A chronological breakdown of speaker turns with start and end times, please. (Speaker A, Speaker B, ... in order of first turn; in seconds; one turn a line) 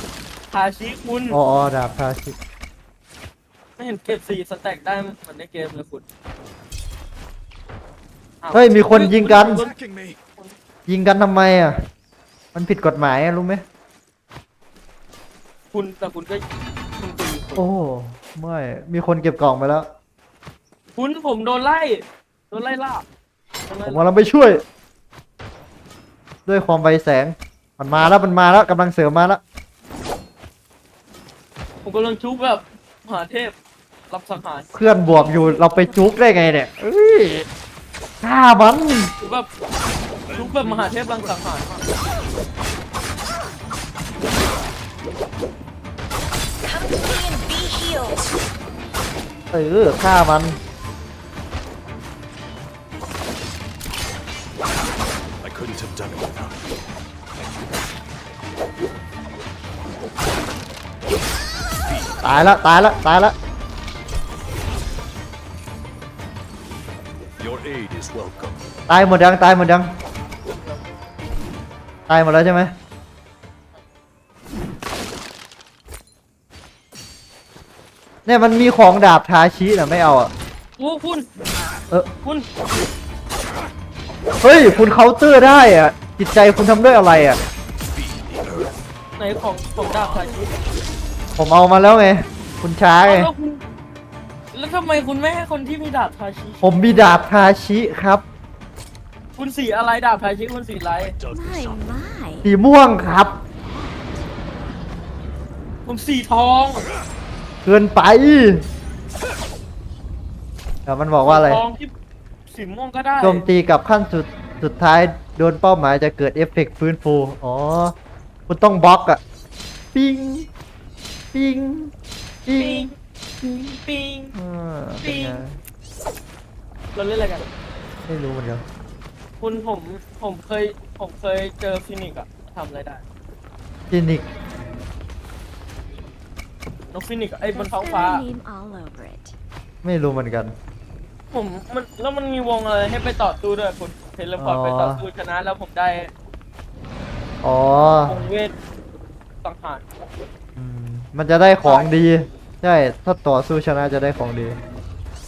Speaker A: 0.5-1.4
Speaker B: 1.3-2.4
Speaker A: 3.8-6.0
Speaker A: 8.4-9.8
Speaker B: 8.5-9.6
Speaker C: 9.2-10.2
Speaker B: 10.9-11.8
Speaker B: 12.5-13.6
Speaker A: 15.7-16.4
Speaker A: 17.0-17.6
Speaker B: 17.6-19.9
Speaker A: 21.0-23.1
Speaker A: 23.7-24.0
Speaker B: 23.8-24.6
Speaker B: 26.5-29.4
Speaker A: 31.8-33.5
Speaker A: 34.1-34.7
Speaker B: 34.7-37.5
Speaker D: 35.0-36.3
Speaker B: 38.2-39.1
Speaker A: 39.2-39.5
Speaker C: 40.3-41.5
Speaker A: 40.3-41.8
Speaker D: 46.6-48.3
Speaker B: 49.5-50.6
Speaker C: 55.4-56.8
Speaker C: 61.8-62.6
Speaker B: 62.2-63.4
Speaker C: 67.4-68.7
Speaker B: 68.9-69.9
Speaker B: 72.1-72.7
Speaker B: 78.3-80.3
Speaker A: 80.8-81.3
Speaker B: 84.4-87.4
Speaker C: 87.9-88.8
Speaker A: 89.2-90.5
Speaker B: 91.4-93.3
Speaker A: 93.0-93.6
Speaker A: 94.5-96.7
Speaker B: 96.6-98.2
Speaker A: 99.4-101.1
Speaker C: 101.0-101.8
Speaker D: 101.3-102.5
Speaker B: 102.5-103.4
Speaker D: 103.7-104.0
Speaker A: 105.9-106.8
Speaker B: 107.7-108.6
Speaker B: 110.9-111.6
Speaker A: 111.2-111.9
Speaker A: 112.5-113.5
Speaker B: 113.2-118.0
Speaker B: 118.5-119.2
Speaker B: 119.9-120.5
Speaker B: 121.3-121.9
Speaker B: 122.5-122.9
Speaker A: 122.6-124.3
Speaker B: 124.3-125.6
Speaker A: 125.0-125.4
Speaker A: 127.0-127.5
Speaker B: 128.1-128.7
Speaker A: 129.4-133.0
Speaker B: 133.9-134.3
Speaker A: 136.9-138.2
Speaker D: 137.4-139.3
Speaker B: 139.8-140.5
Speaker A: 141.3-146.1
Speaker B: 144.4-145.0
Speaker B: 147.4-148.2
Speaker A: 148.0-148.6
Speaker A: 149.4-149.8
Speaker B: 150.6-154.6
Speaker A: 151.6-151.9